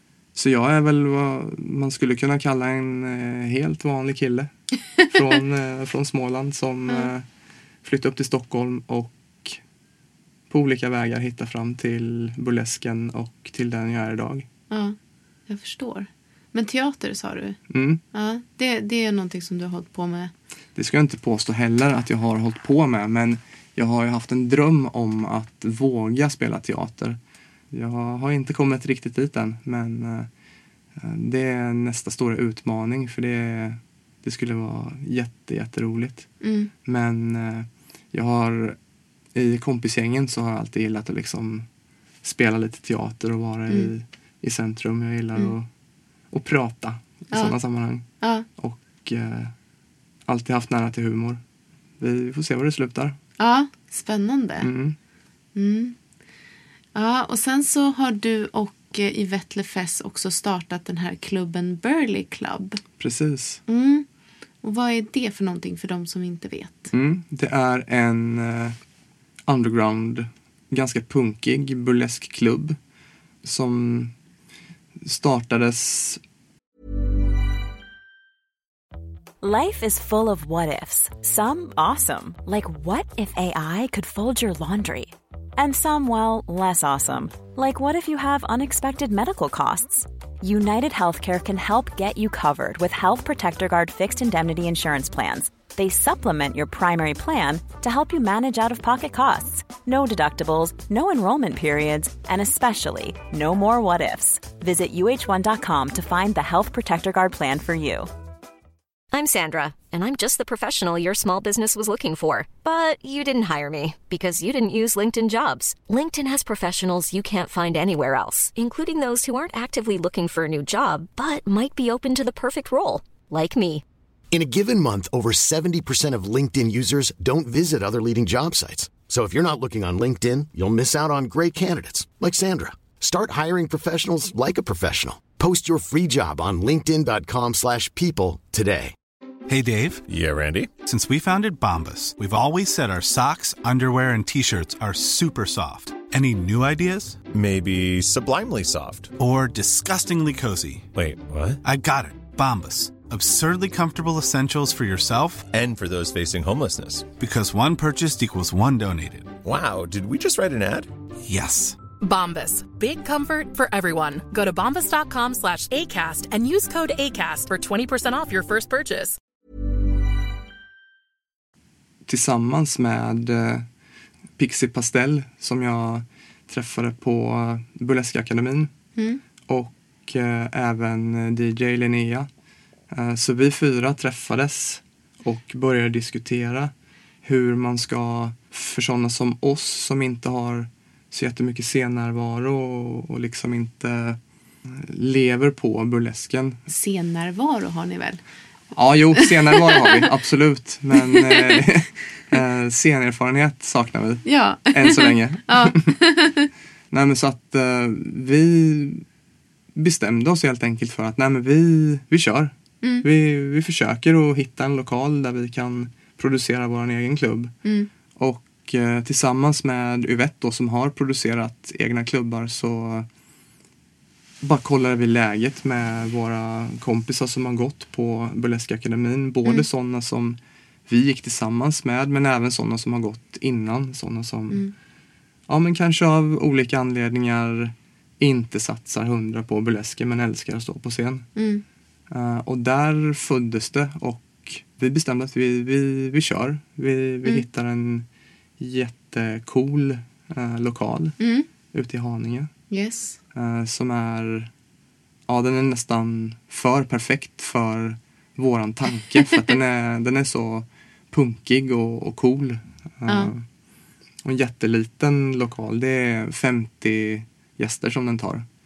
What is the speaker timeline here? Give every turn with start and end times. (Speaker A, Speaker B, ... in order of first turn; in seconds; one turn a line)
Speaker A: 0.3-4.5
Speaker A: 5.1-7.3
Speaker A: 7.8-9.6
Speaker A: 10.5-14.5
Speaker B: 14.7-15.0
Speaker B: 15.5-17.6
Speaker A: 17.7-18.0
Speaker B: 18.1-20.3
Speaker A: 20.8-27.2
Speaker A: 27.7-30.3
Speaker A: 31.0-36.3
Speaker B: 36.4-36.7
Speaker A: 36.9-38.8
Speaker A: 39.4-41.7
Speaker A: 42.2-45.7
Speaker A: 46.3-49.5
Speaker B: 47.3-47.6
Speaker A: 50.3-51.4
Speaker A: 52.0-53.2
Speaker B: 53.4-54.7
Speaker A: 54.6-55.0
Speaker B: 55.5-56.0
Speaker B: 57.0-62.8
Speaker A: 63.0-63.6
Speaker B: 63.7-64.1
Speaker B: 64.6-66.9
Speaker A: 66.9-68.8
Speaker A: 69.5-72.8
Speaker A: 73.4-74.1
Speaker A: 75.0-76.2
Speaker C: 79.4-108.1
Speaker D: 109.1-123.8
Speaker E: 124.3-138.9
Speaker F: 139.5-140.0
Speaker G: 140.1-140.7
Speaker F: 140.8-147.2
Speaker G: 147.3-149.1
Speaker F: 149.2-150.9
Speaker G: 150.9-151.6
Speaker F: 151.6-155.5
Speaker G: 155.5-157.1
Speaker F: 157.2-159.3
Speaker G: 159.4-160.9
Speaker F: 161.3-161.8
Speaker H: 162.0-169.2
Speaker A: 172.1-173.7
Speaker A: 174.4-178.7
Speaker B: 179.0-179.2
Speaker A: 179.5-182.3
Speaker A: 182.9-186.7
Speaker A: 187.2-196.6
Speaker B: 196.7-198.2
Speaker A: 198.7-205.9
Speaker B: 199.2-200.1
Speaker B: 200.9-201.7
Speaker B: 204.3-206.5
Speaker A: 206.9-209.1
Speaker A: 209.8-217.5
Speaker B: 212.8-213.1
Speaker B: 217.6-217.9
Speaker A: 218.2-223.1
Speaker A: 224.4-234.6
Speaker A: 235.5-241.3
Speaker B: 241.4-241.6
Speaker A: 242.1-248.1
Speaker A: 248.6-251.2
Speaker B: 251.2-251.5
Speaker A: 251.7-252.5
Speaker B: 252.7-253.2
Speaker A: 253.3-254.5
Speaker A: 255.3-263.4
Speaker B: 263.1-263.3
Speaker A: 264.2-268.5